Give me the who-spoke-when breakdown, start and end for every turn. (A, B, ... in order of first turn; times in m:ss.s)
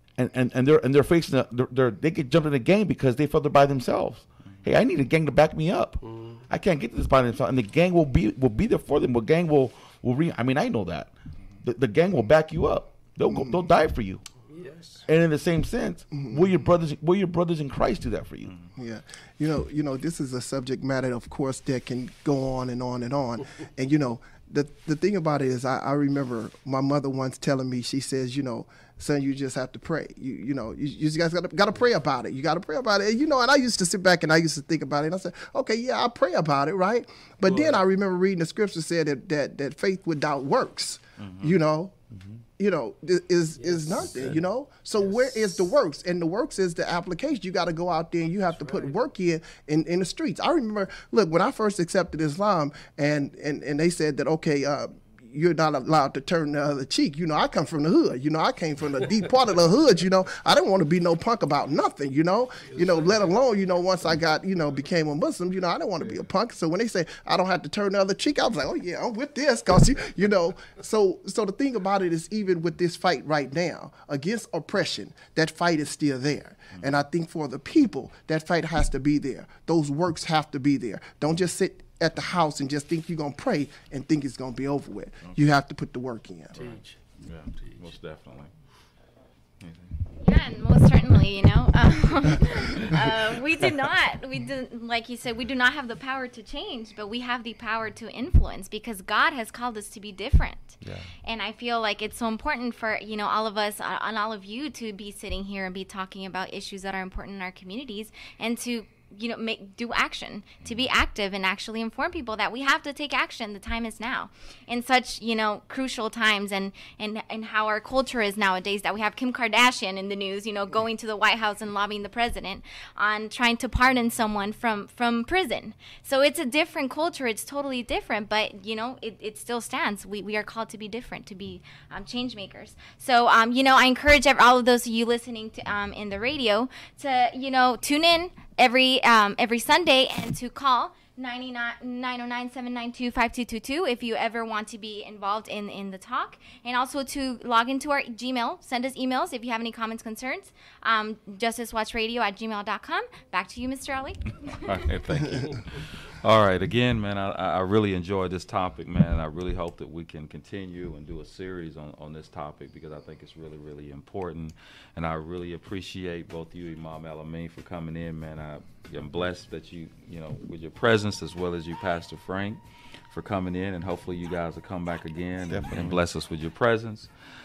0:00.2-0:14.2 A
0:06.0-0:06.4 B
0:13.3-0:13.5 C
0:14.5-0:15.1 B
0:15.1-0:18.6 A
0:16.1-0:16.5 C
0:18.4-0:18.8 D
0:18.8-0:41.9 C
0:41.2-0:41.6 D
0:42.1-0:42.4 A
0:42.6-1:26.6 C
0:43.6-0:44.1 B
0:44.0-0:44.4 A
0:45.1-0:45.4 B
0:48.5-0:48.9 B
1:02.7-1:03.3 B
1:16.7-1:17.0 D
1:26.5-1:27.0 B
1:26.5-1:28.5 D
1:27.6-1:27.9 B
1:29.6-1:30.0 D
1:30.2-2:35.0 E
1:40.8-1:41.1 A
2:34.5-2:57.1 D
2:55.5-2:56.0 A